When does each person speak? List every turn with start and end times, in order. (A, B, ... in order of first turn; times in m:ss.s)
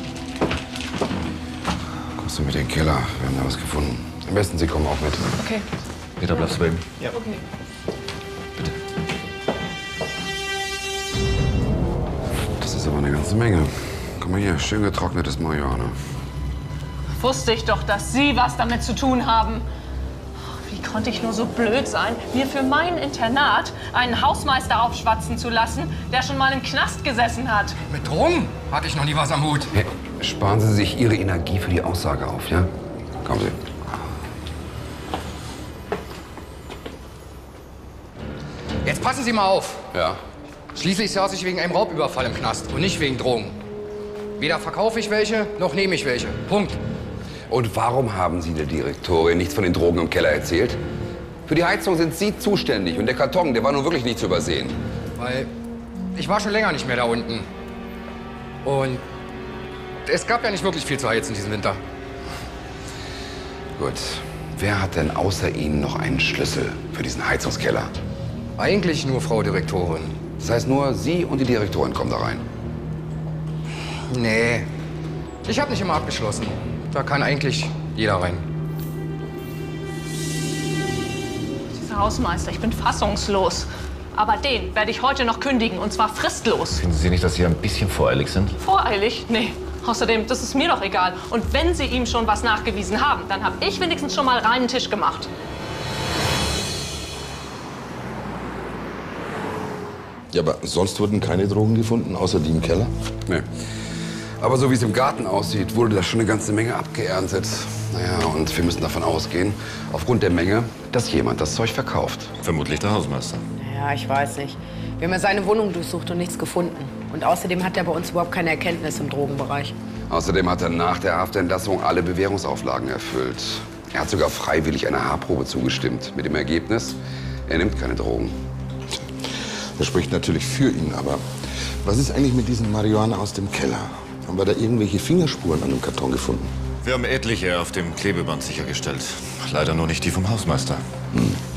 0:02.2-0:05.3 A
0:05.4-0:05.6 B
0:06.2-0:07.1 C
0:07.1-0:07.4 B
0:12.6-0:13.7 A
0:14.2-0:15.9 A
0:17.2-0:19.6 B
0:20.7-0:27.8 B
0:27.8-0:29.7 D
0:29.7-0:32.7 A
0:33.2-0:33.6 A
0:38.8-0:39.8 D
0:39.9-0:40.2 A
0:40.7-0:43.6 D
0:44.4-0:46.8 D
0:47.5-0:50.8 A
0:51.5-0:54.8 A
0:55.2-0:55.5 D
0:56.2-0:57.4 D
0:58.6-0:59.0 D
1:00.0-1:01.8 D
1:03.8-1:07.9 A
1:08.6-1:10.1 D
1:10.4-1:12.4 A
1:14.1-1:14.7 D
1:15.4-1:18.4 D
1:21.7-1:26.8 B
1:26.7-1:28.6 C
1:28.6-1:35.3 B
1:40.3-1:42.9 E
1:44.4-1:52.3 A
1:52.4-1:53.4 C
1:53.6-1:59.7 F
2:00.1-2:07.0 A
2:07.5-2:08.3 A
2:09.8-2:11.2 E
2:11.8-2:16.4 E
2:16.8-2:20.8 C